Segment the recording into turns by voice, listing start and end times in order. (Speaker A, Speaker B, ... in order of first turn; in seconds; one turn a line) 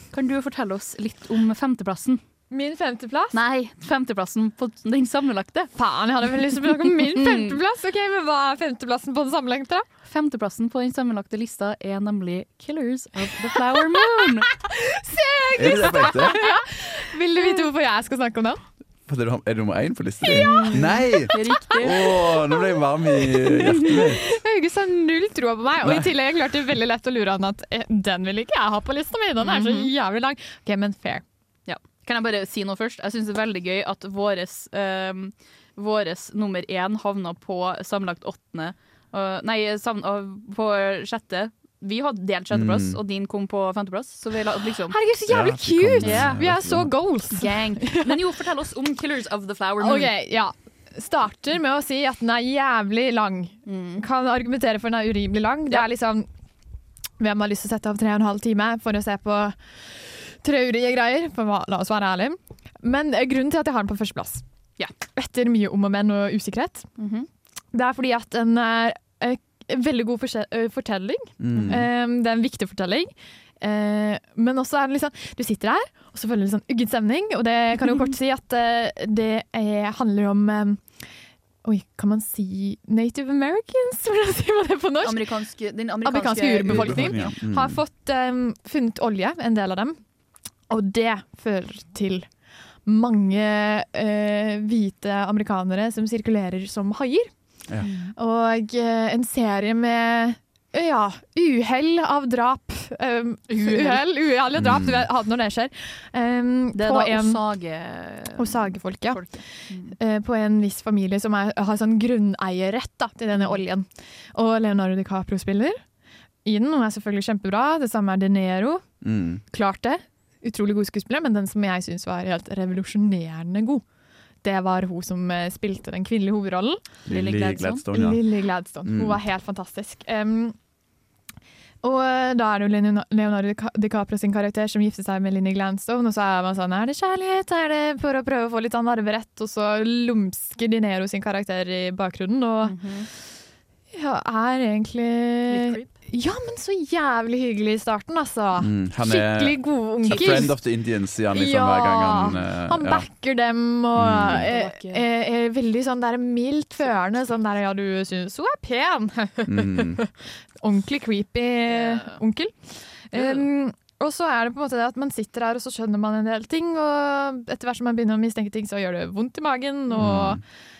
Speaker A: 0.1-2.2
Speaker B: 2.5-3.4
Speaker A: 3.3-5.7
Speaker B: 5.8-9.8
Speaker A: 6.6-7.6
Speaker A: 10.0-14.5
Speaker B: 14.6-18.6
Speaker C: 15.6-16.4
Speaker A: 15.7-16.4
Speaker A: 17.4-17.7
Speaker C: 19.1-24.3
Speaker B: 20.2-21.4
Speaker A: 20.4-22.1
Speaker B: 23.4-31.2
Speaker C: 25.8-26.1
Speaker A: 29.4-29.9
Speaker A: 31.7-45.0
Speaker C: 42.5-43.0
Speaker B: 44.9-48.2
Speaker C: 45.3-47.0
Speaker A: 46.0-46.4
Speaker A: 47.3-50.1
Speaker B: 49.8-56.3
Speaker A: 53.6-54.0
Speaker B: 57.2-64.4
Speaker B: 65.1-66.9
Speaker A: 67.0-67.3
Speaker B: 67.7-81.1
Speaker C: 71.4-71.9
Speaker A: 71.5-71.8
Speaker B: 81.6-85.3
Speaker A: 85.0-87.3
Speaker B: 86.0-90.0
Speaker C: 86.7-87.8
Speaker B: 90.7-92.3
Speaker B: 92.8-97.4
Speaker A: 97.8-98.1
Speaker B: 98.2-107.4
Speaker A: 103.5-104.0
Speaker C: 104.6-105.1
Speaker A: 106.7-109.9
Speaker B: 108.3-115.8
Speaker A: 113.3-113.6
Speaker B: 116.4-118.9
Speaker C: 119.0-119.4
Speaker B: 119.5-123.8
Speaker B: 124.4-126.8
Speaker C: 127.0-128.2
Speaker A: 127.1-127.8
Speaker B: 127.9-130.6
Speaker C: 128.8-129.2
Speaker B: 131.8-142.8
Speaker A: 142.6-143.1
Speaker B: 143.9-150.8
Speaker A: 145.5-145.9
Speaker C: 148.6-153.1
Speaker A: 150.0-150.5
Speaker B: 151.3-170.4
Speaker C: 153.9-154.4
Speaker A: 154.4-155.0
Speaker C: 159.5-160.0
Speaker A: 161.7-162.2
Speaker A: 163.1-163.4
Speaker C: 169.9-170.4